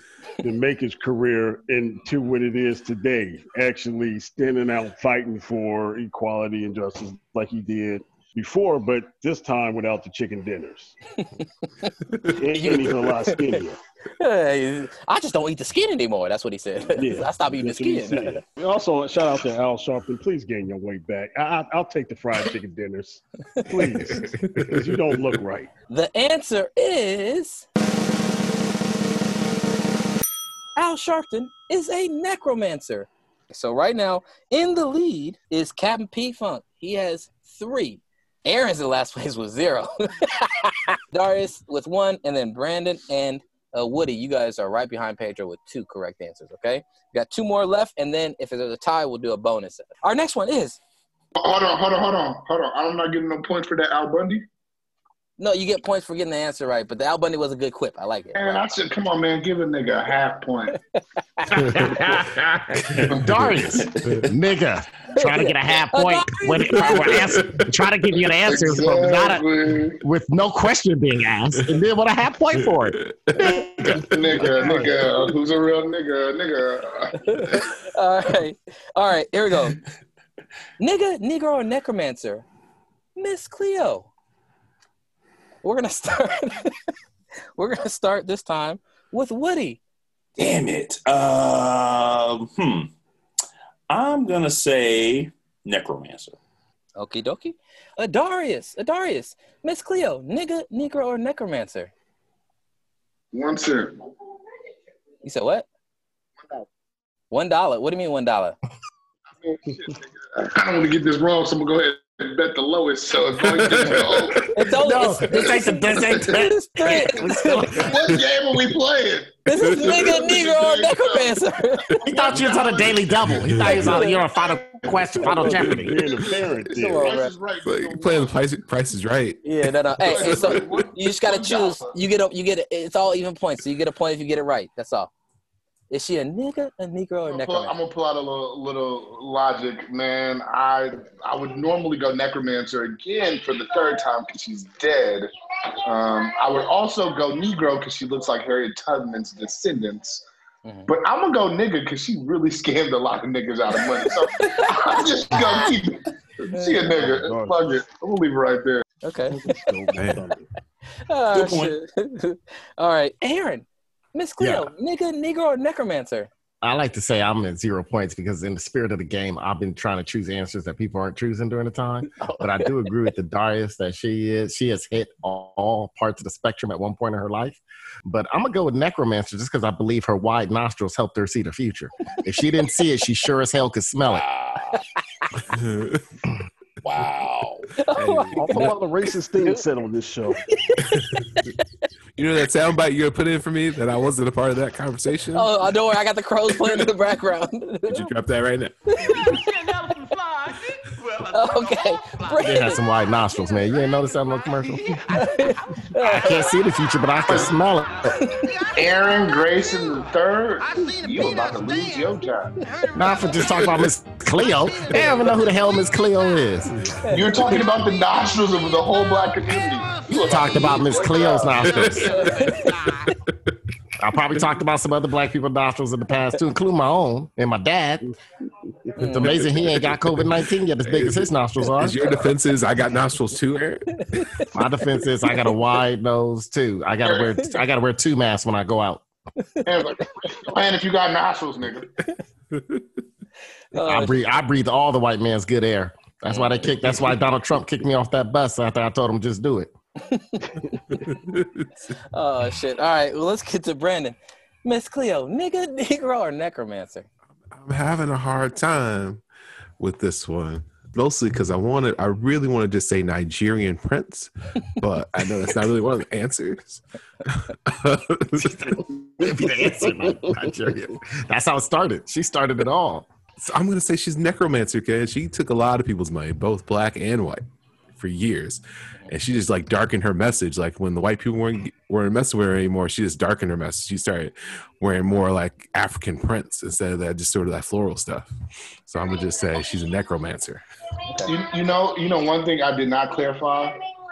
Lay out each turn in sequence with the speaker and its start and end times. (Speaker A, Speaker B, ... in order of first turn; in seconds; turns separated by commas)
Speaker A: 0.4-10.9, Speaker A: 12.3-13.8, Speaker B: 12.5-13.6, Speaker B: 14.2-18.4, Speaker A: 16.9-25.7, Speaker B: 25.9-27.6, Speaker B: 30.8-50.8, Speaker C: 51.4-54.4, Speaker B: 55.4-58.6, Speaker C: 58.3-60.8, Speaker D: 61.6-62.3, Speaker D: 62.9-69.4, Speaker B: 65.1-67.3, Speaker C: 68.4-70.0, Speaker D: 70.0-74.9, Speaker E: 73.3-73.6, Speaker C: 74.0-77.4, Speaker B: 77.3-79.8, Speaker B: 80.8-82.5, Speaker B: 83.2-84.1, Speaker B: 85.6-86.7, Speaker B: 87.6-89.8, Speaker F: 90.4-92.9, Speaker F: 93.9-96.4, Speaker B: 97.0-101.9, Speaker C: 103.3-104.0, Speaker B: 105.2-105.7, Speaker B: 107.3-108.5, Speaker C: 109.4-114.5, Speaker E: 113.5-114.1, Speaker B: 114.5-117.9, Speaker D: 114.8-117.9, Speaker C: 117.8-121.4, Speaker B: 119.5-122.0, Speaker D: 122.0-126.0, Speaker C: 122.0-123.0, Speaker E: 123.4-123.8, Speaker B: 123.6-124.3, Speaker A: 125.2-127.1, Speaker C: 126.7-128.4, Speaker B: 126.7-127.3, Speaker E: 127.6-129.6, Speaker B: 129.4-135.1, Speaker C: 130.0-131.9, Speaker E: 130.1-130.9, Speaker B: 135.9-137.7, Speaker C: 137.3-145.3, Speaker C: 145.8-150.2, Speaker B: 150.6-150.9, Speaker C: 150.9-158.8, Speaker B: 154.4-154.8, Speaker B: 156.6-156.9, Speaker A: 157.0-157.6, Speaker B: 159.0-159.5, Speaker A: 159.3-160.4, Speaker B: 161.1-166.3, Speaker F: 161.3-161.7, Speaker D: 164.4-164.7, Speaker D: 166.6-184.2, Speaker B: 172.2-172.7, Speaker F: 184.0-184.8, Speaker E: 185.5-186.0, Speaker F: 186.8-187.7, Speaker B: 187.8-188.8, Speaker A: 188.1-190.4, Speaker E: 188.3-188.6, Speaker B: 190.4-191.2, Speaker E: 192.2-195.5, Speaker B: 195.3-198.1, Speaker E: 197.9-198.7, Speaker B: 198.9-199.7, Speaker B: 201.2-202.8, Speaker D: 202.4-204.9, Speaker B: 205.1-206.6, Speaker D: 206.0-208.1, Speaker C: 207.2-207.5, Speaker B: 208.2-208.5, Speaker C: 208.7-212.6, Speaker D: 212.9-217.0, Speaker C: 217.0-221.7, Speaker D: 220.2-222.4, Speaker B: 222.1-223.1, Speaker D: 224.0-228.1, Speaker B: 228.9-229.4, Speaker D: 229.0-232.3, Speaker E: 229.3-229.9, Speaker E: 230.9-233.8, Speaker D: 234.5-239.0, Speaker C: 237.0-237.3, Speaker C: 239.6-241.8, Speaker B: 243.7-244.2, Speaker D: 243.7-249.7, Speaker B: 246.3-246.8, Speaker B: 250.0-250.5, Speaker E: 251.0-251.6, Speaker B: 252.1-257.1, Speaker E: 257.5-259.2, Speaker E: 259.8-268.8, Speaker D: 268.4-273.1, Speaker E: 273.4-288.3, Speaker E: 288.9-290.6, Speaker C: 291.2-293.8